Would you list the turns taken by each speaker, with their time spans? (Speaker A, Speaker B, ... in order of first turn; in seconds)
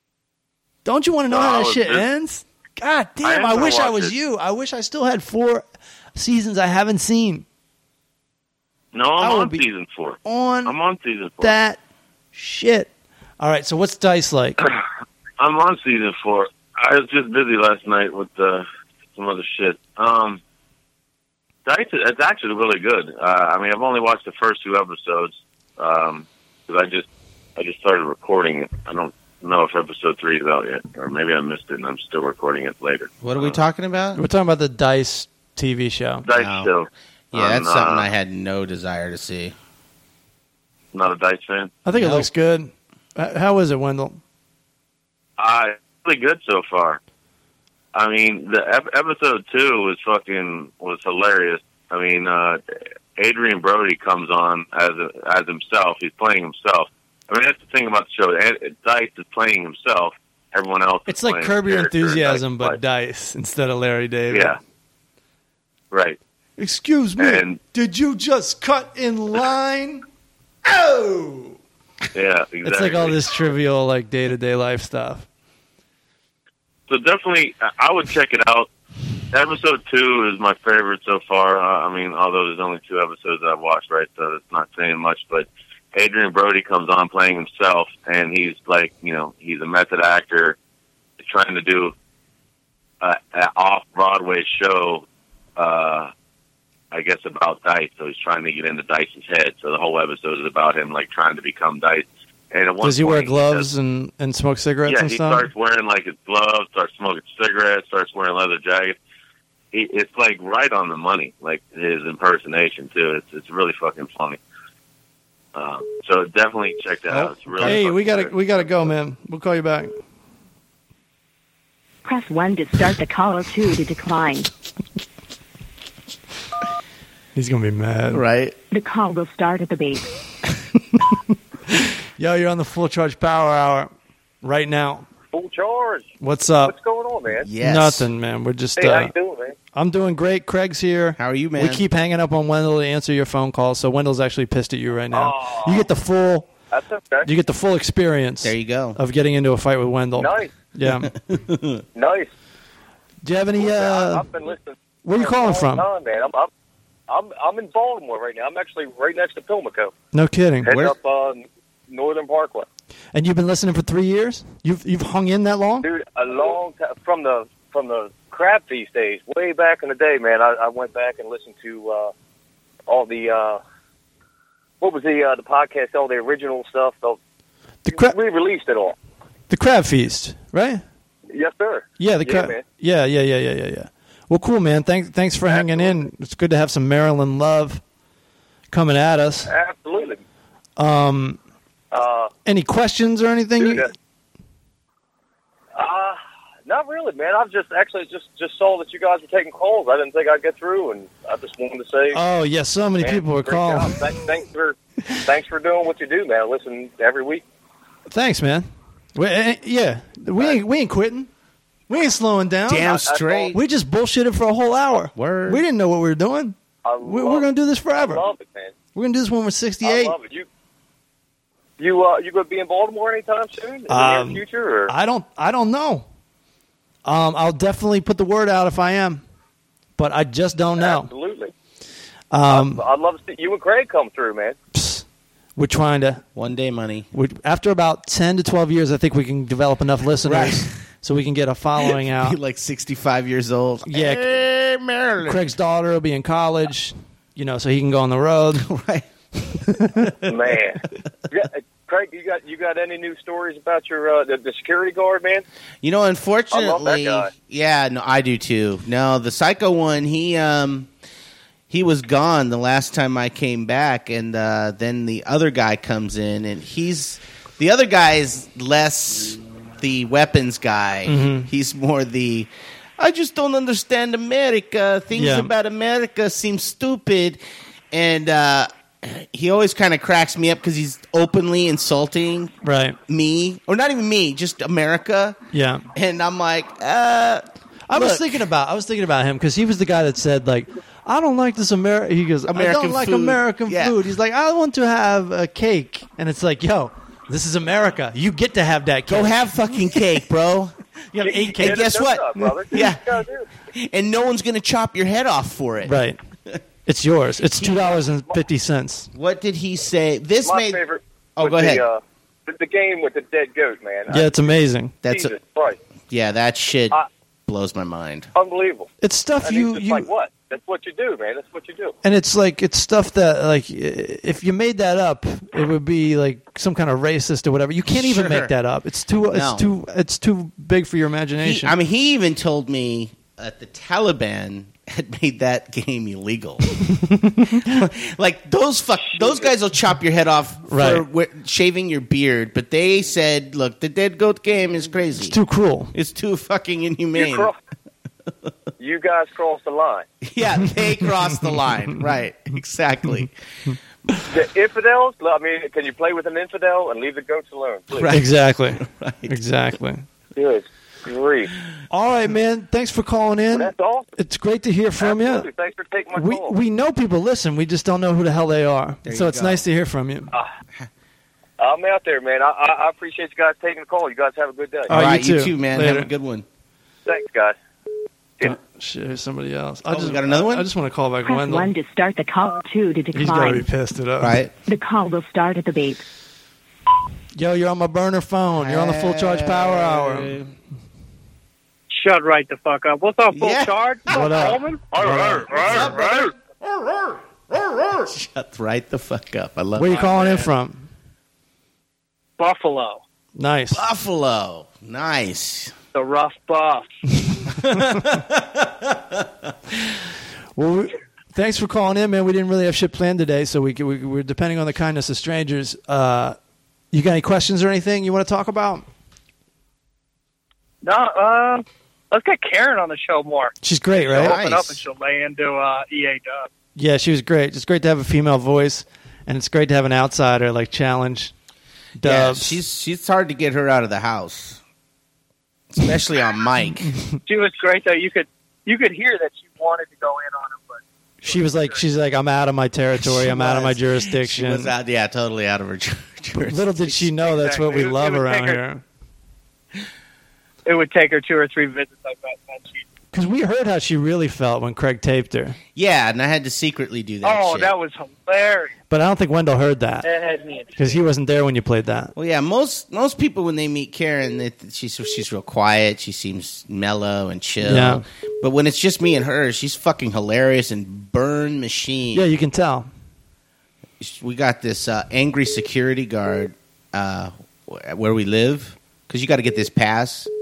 Speaker A: 0.8-7.4, 9.2-9.6, 10.2-10.7, 11.4-11.8, 12.3-12.9, 13.4-14.6, 34.1-36.2, 41.8-44.2, 61.1-64.6, 66.6-70.0, 70.7-71.6, 72.6-75.2, 102.8-105.5, 117.6-119.9, 127.3-128.2, 131.7-133.9, 134.4-135.1, 136.2-136.7, 137.6-139.1, 139.7-146.5, 147.2-151.1, 153.2-154.3, 155.0-155.8, 160.1-160.7, 163.1-165.9, 177.8-178.2, 179.5-180.8, 182.0-187.8, 188.7-189.5, 190.8-191.4, 192.4-193.9, 202.1-203.9, 208.1-211.3, 211.9-212.9, 213.5-218.2, 218.9-220.2, 223.9-226.0, 227.0-229.2, 230.0-231.1, 232.3-232.8, 234.7-235.0, 235.6-236.2, 237.1-242.4, 243.8-244.4, 245.2-248.7, 249.7-250.1, 271.1-271.5, 275.1-275.5, 282.6-283.0, 285.5-285.8, 287.9-299.5, 301.1-302.5, 305.8-306.2, 306.9-309.1, 314.1-314.9, 319.0-320.1, 322.0-331.7, 336.9-337.6, 340.7-341.0, 345.2-345.9, 351.3-351.6, 358.1-360.0, 361.9-365.5, 366.1-370.3, 374.9-376.1, 378.4-381.7, 383.1-384.4, 387.4-390.3, 394.1-395.9, 399.8-400.9, 403.4-403.8, 407.2-407.8, 410.5-416.4, 416.9-418.9, 423.6-424.4, 426.8-431.3, 432.0-432.6, 441.2-444.7, 446.4-448.8, 453.1-455.6, 458.9-460.1, 460.8-462.1, 467.6-468.0, 472.1-472.9
Speaker B: 1.3-2.0, 3.2-4.1, 8.9-11.5, 15.4-20.4, 21.6-33.6, 36.2-38.1, 40.9-41.7, 45.4-47.0, 47.9-52.6, 53.2-62.8, 64.3-64.6, 65.9-66.2, 67.2-67.6, 72.1-73.2, 76.9-78.7, 79.3-90.6, 91.2-91.9, 93.0-95.0, 95.6-96.1, 96.9-103.7, 104.8-109.0, 109.7-114.4, 115.5-118.8, 394.9-396.3
Speaker C: 33.2-34.2, 36.3-36.7, 37.3-39.5, 42.0-42.3, 117.1-117.8, 128.1-128.5, 137.4-138.1, 141.2-141.8, 148.4-149.0, 151.1-151.8, 212.7-213.6, 215.1-215.6, 236.3-237.1, 240.2-240.8, 241.8-245.4, 248.6-249.1, 255.8-260.9, 261.7-277.4, 277.9-282.5, 283.1-285.4, 285.9-288.4, 292.5-293.9, 299.1-300.7, 301.6-303.1, 303.7-305.9, 307.6-307.9, 309.1-310.8, 311.4-311.8, 315.0-315.3, 316.1-318.3, 327.9-328.5, 329.3-329.7, 331.4-336.6, 337.6-345.4, 345.9-347.5, 350.2-353.3, 357.9-359.4, 369.0-369.6, 374.9-376.4, 379.9-380.7, 384.2-384.5, 388.6-390.5, 393.3-394.5, 395.1-400.4, 403.7-405.7, 407.5-409.9, 424.1-424.8, 432.0-434.6, 435.7-436.9, 443.0-447.1, 455.7-457.7, 462.1-472.2, 474.0-480.3
Speaker D: 122.0-124.5, 128.7-130.1, 381.2-383.7, 384.6-386.0
Speaker E: 135.3-136.1, 136.6-137.5, 138.8-139.5, 145.1-145.9, 146.7-147.3, 150.2-150.5, 151.9-152.3, 153.6-156.5, 157.1-159.9, 160.6-162.7, 165.8-172.1, 172.9-173.6, 174.8-177.2, 177.9-178.9, 181.3-182.6, 185.5-186.0, 189.4-190.2, 191.9-192.3, 193.6-193.9, 195.7-202.2, 203.0-207.4, 212.8-213.5, 216.8-218.7, 219.8-220.4, 221.8-224.9, 230.8-231.5, 232.5-234.6, 250.2-255.4, 256.5-257.3, 301.2-303.5, 307.7-308.3, 310.4-315.8, 318.3-318.9, 319.4-321.9, 339.0-339.5, 347.1-347.6, 348.8-350.1, 354.3-358.1, 360.3-361.5, 363.5-364.1, 365.0-366.6, 371.6-374.9, 377.1-377.6
Speaker F: 391.9-394.8, 402.4-403.0, 405.9-406.9, 420.8-423.5, 424.0-426.5, 437.3-441.8, 447.3-448.6, 450.6-452.8, 457.2-458.7, 460.0-460.7